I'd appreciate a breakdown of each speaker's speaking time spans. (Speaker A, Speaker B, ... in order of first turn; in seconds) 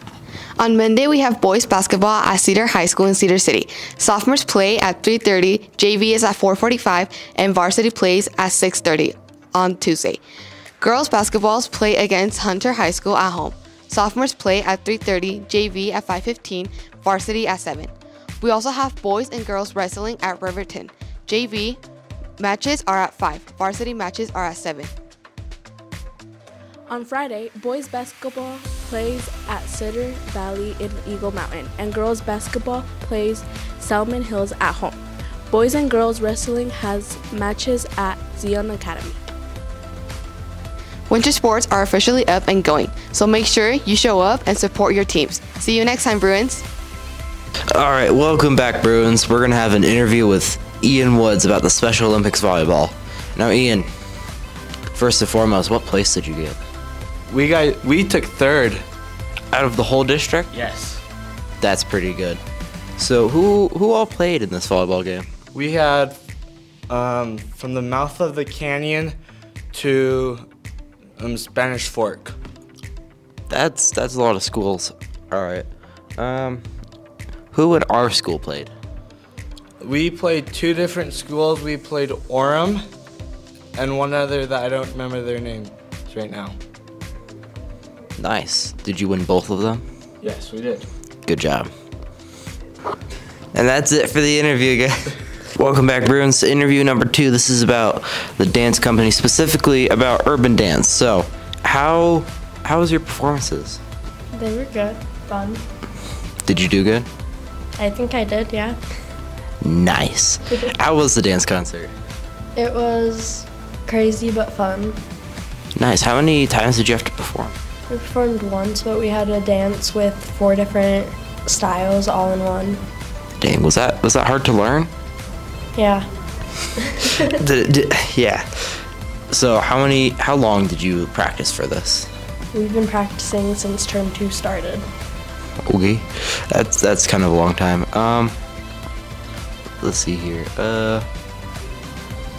Speaker A: 0.6-10.2, 10.8-21.8, 22.4-24.9, 41.1-46.6
Speaker B: 26.9-35.0, 35.5-39.2
Speaker C: 47.7-53.9, 54.9-56.6, 59.5-60.5, 61.6-62.4, 63.0-65.3, 73.5-76.6, 77.5-78.7, 88.2-89.8, 91.2-91.7, 93.5-103.8, 106.4-107.1, 109.6-111.9, 115.8-117.5, 123.4-124.9, 127.2-132.1, 135.7-138.3, 139.8-141.1
Speaker D: 57.3-58.8, 60.5-61.0, 65.5-66.2, 66.9-69.2, 69.7-70.5, 71.2-72.4, 79.8-82.8, 83.7-86.5, 90.2-90.8
Speaker E: 104.3-105.6, 107.8-108.8, 112.5-115.0, 117.9-122.8, 125.7-126.0, 126.8-127.2, 132.5-134.8